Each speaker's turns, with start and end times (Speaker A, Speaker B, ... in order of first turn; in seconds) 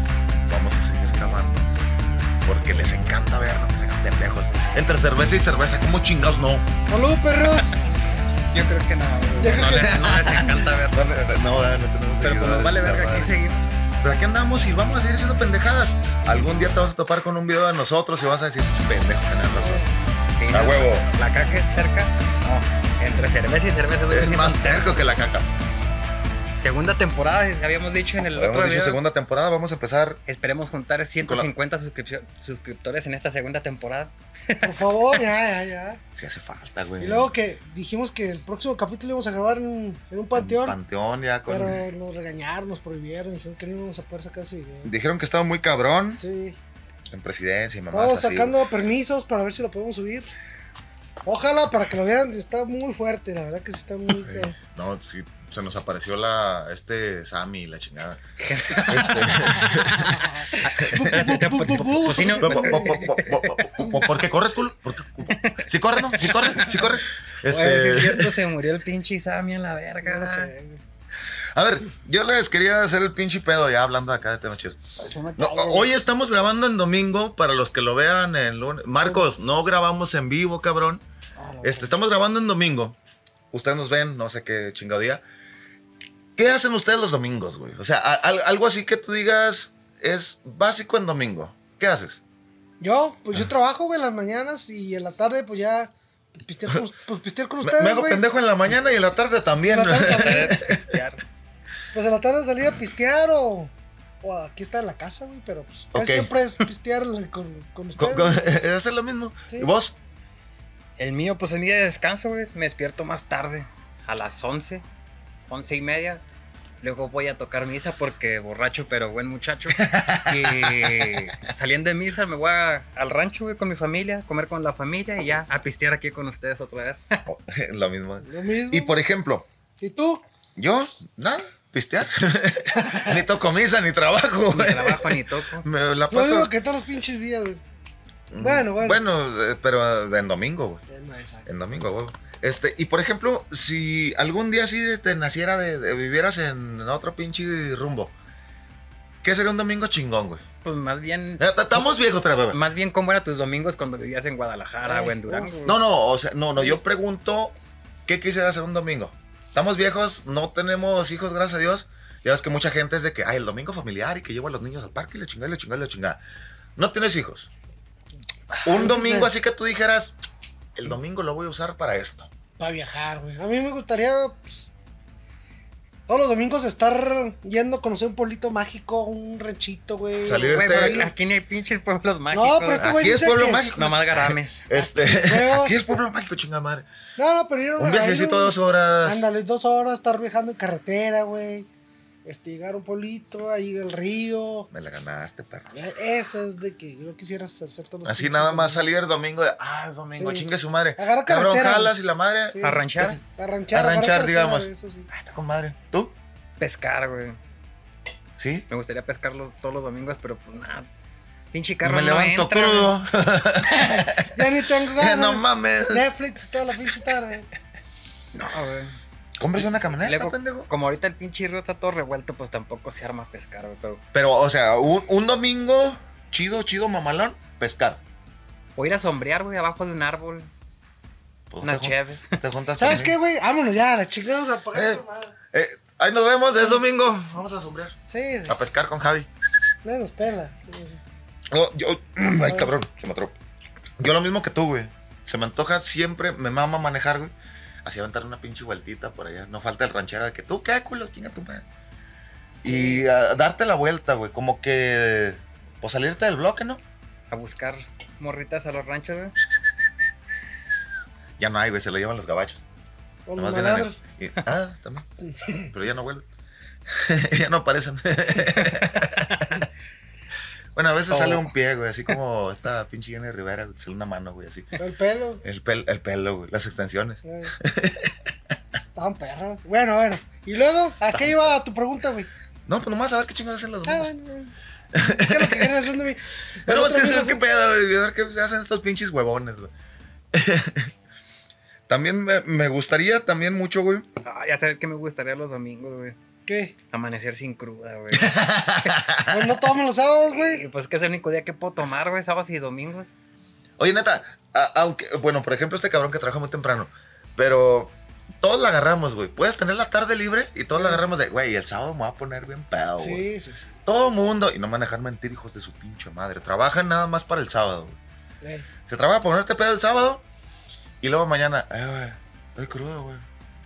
Speaker A: 0.5-1.7, 2.4-6.7, 9.8-13.4, 14.0-19.8, 20.5-21.1, 24.1-25.5, 28.3-30.2, 31.2-31.5, 36.1-37.3, 40.4-41.8, 44.8-46.2, 47.1-48.6, 54.2-60.2, 60.8-61.4, 62.1-68.4, 71.5-74.8, 75.4-81.0, 81.6-83.0, 83.5-85.2, 86.4-92.2, 97.6-101.0, 105.9-106.3, 108.0-110.0, 119.8-121.2, 127.3-129.5, 130.6-136.5, 138.3-140.8, 141.5-148.1, 149.2-150.4, 151.4-152.6, 155.7-157.6, 158.1-166.2, 166.8-167.5, 168.6-170.2, 170.8-172.3, 180.2-181.1, 182.8-186.9, 187.8-189.3, 194.7-195.7, 198.1-206.1, 208.4-208.7, 211.8-216.1, 219.4-220.7, 224.1-228.0, 231.5-233.2, 234.7-238.0, 238.5-239.3, 241.5-243.4, 244.0-247.3, 247.8-251.7, 252.6-256.8, 261.4-262.6, 263.4-265.1, 265.7-266.3, 266.9-269.6, 270.8-274.8, 275.4-278.2, 282.7-284.1, 284.9-285.9, 286.6-289.7, 290.3-290.9, 291.9-294.1, 298.1-299.6, 303.8-313.2, 313.9-318.0, 318.9-320.2, 321.0-323.2
Speaker B: 6.9-7.8, 9.4-10.2, 34.6-36.0, 37.0-40.8, 41.5-44.9, 46.2-46.6, 47.9-50.3, 51.2-54.6, 59.5-63.0, 70.0-70.8, 75.0-75.9, 81.4-82.0, 92.8-98.2, 99.7-100.6, 101.9-103.7, 104.2-108.5, 128.2-128.9, 129.8-130.2, 132.8-133.2, 136.1-137.6, 138.4-139.0, 140.9-141.5, 154.9-155.6, 168.5-169.3, 172.6-174.7, 176.1-181.1, 182.3-183.7, 184.7-185.8, 187.2-191.7, 192.2-194.7, 195.7-198.8, 200.2-200.5, 201.0-201.9, 202.5-205.1, 214.3-217.5, 232.8-235.4, 238.1-238.6, 239.8-241.0, 252.7-253.0, 263.3-264.0, 274.8-275.4, 277.2-277.5, 278.9-282.3, 283.9-284.5, 285.1-287.4, 296.5-296.8, 299.3-300.6, 310.8-311.0, 313.0-313.8, 318.4-318.7
Speaker C: 8.5-11.4, 12.2-13.7, 20.4-25.0, 26.6-29.0, 30.3-35.2, 58.4-64.2, 65.3-70.5, 100.1-101.2, 111.0-114.8, 115.5-116.2, 116.8-127.2, 134.5-135.7, 150.6-151.9, 152.5-155.8, 180.5-183.1, 183.7-184.5, 202.6-203.2, 206.6-207.4, 208.7-210.9, 211.5-212.9, 218.3-218.9, 220.0-224.0, 228.8-230.5, 231.6-232.4, 257.3-259.4, 268.4-269.5, 271.1-271.5, 294.2-296.2, 296.9-298.4, 300.3-303.1